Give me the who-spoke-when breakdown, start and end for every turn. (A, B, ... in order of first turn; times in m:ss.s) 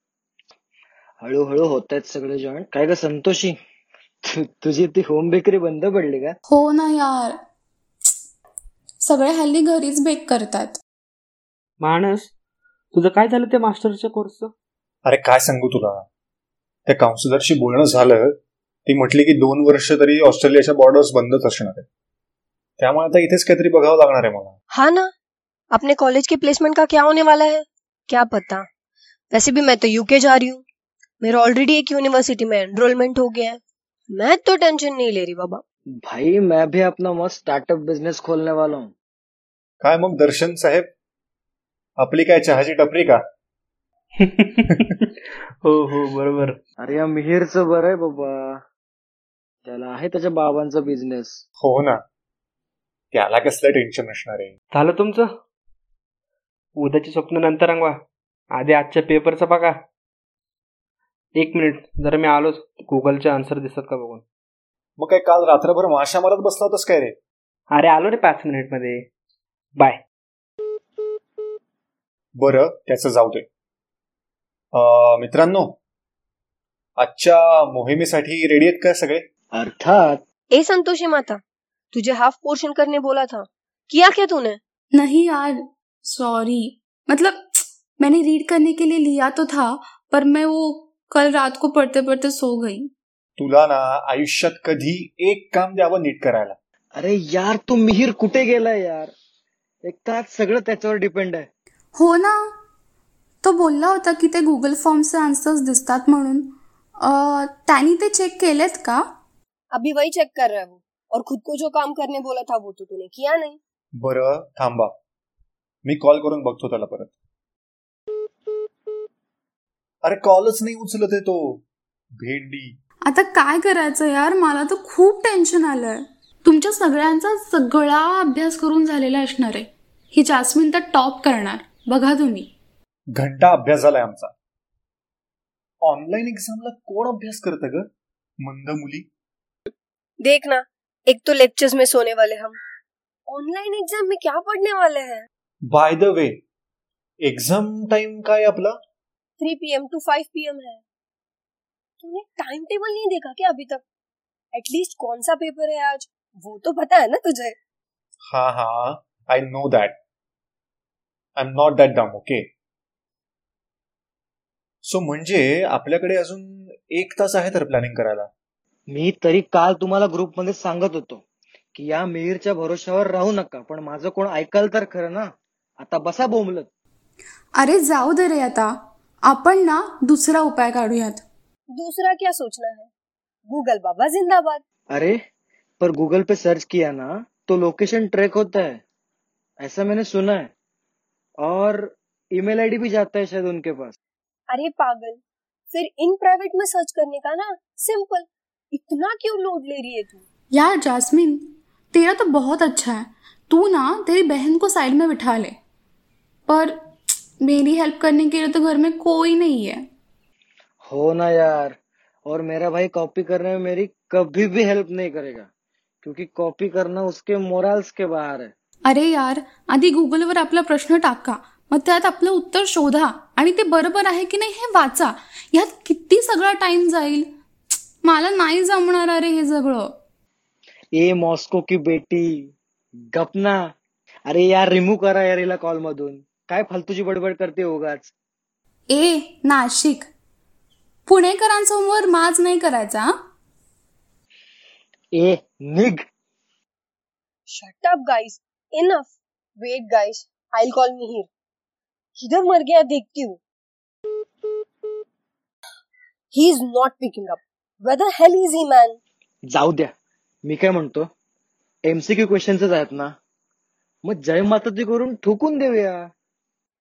0:01.2-0:03.6 A
0:04.3-0:06.4 A
0:06.5-0:07.4 B
0:09.0-0:10.8 B
0:11.8-0:12.3 C
0:12.9-0:14.5 C
0:15.1-0:16.1 D
0:16.9-0:18.3 D
0:18.9-0:21.9 D
0:22.8-0:24.6 D
0:24.7-0:25.1 E
0:25.7-0:28.7 E
0:29.3-0:30.6 E
0:31.2-0:33.6 E
0:34.1-0:35.6 E
0:36.0-0:38.9 A
0:39.8-0:40.9 D
0:42.0-0:43.2 D
0:44.2-0:44.9 C
0:45.6-0:46.6 C
0:46.8-0:48.6 A
0:49.7-0:51.4 A
0:51.6-0:52.0 D
0:53.1-0:54.5 D
0:54.7-0:55.3 C
0:56.8-0:58.0 C
0:58.6-0:59.8 C
1:01.4-1:04.2 C
1:05.0-1:07.2 D
1:07.7-1:09.1 C
1:12.4-1:13.5 D
1:14.7-1:15.8 D
1:17.0-1:19.2 D
1:19.5-1:20.2 A
1:20.6-1:21.4 E
1:21.9-1:24.6 E
1:25.0-1:27.5 B
1:28.0-1:32.9 B
1:33.4-1:36.6 D
1:37.0-1:39.1 A
1:39.8-1:41.5 A
1:42.0-1:42.4 B
1:43.4-1:46.5 B
1:47.0-1:49.0 B
1:49.7-1:53.6 E
1:54.0-1:54.9 D
1:55.8-1:57.1 D
2:00.0-2:01.6 D
2:02.2-2:02.8 D
2:03.1-2:12.5 B
2:13.2-2:14.3 D
2:15.8-2:17.9 D
2:18.4-2:19.1 D
2:20.2-2:22.6 E
2:23.3-2:25.3 E
2:25.7-2:26.4 D
2:27.2-2:28.7 D
2:29.4-2:30.8 E
2:32.0-2:33.8 E
2:34.6-2:37.6 E
2:38.3-2:40.0 D
2:41.4-2:42.5 D
2:44.8-2:48.3 D
2:48.9-2:51.2 A
2:51.8-2:56.7 A
2:57.6-2:58.8 B
2:59.3-3:01.2 B
3:01.8-3:02.9 E
3:03.5-3:04.6 E
3:05.8-3:08.8 A
3:09.6-3:10.5 A
3:11.4-3:14.0 A
3:14.5-3:15.2 E
3:15.7-3:20.2 E
3:20.5-3:25.6 B
3:26.5-3:26.8 B
3:27.4-3:29.8 B
3:30.9-3:35.5 A
3:36.0-3:38.5 A
3:38.9-3:47.3 B
3:48.0-3:49.9 B
3:50.9-3:52.5 A
3:53.1-3:53.7 A
3:54.3-3:58.1 A
3:58.9-4:00.1 B
4:01.1-4:03.1 B
4:05.2-4:06.0 A
4:07.5-4:11.3 E
4:12.2-4:13.4 E
4:16.3-4:19.0 E
4:19.5-4:19.9 A
4:20.5-4:21.1 A
4:21.9-4:23.2 A
4:24.1-4:26.1 A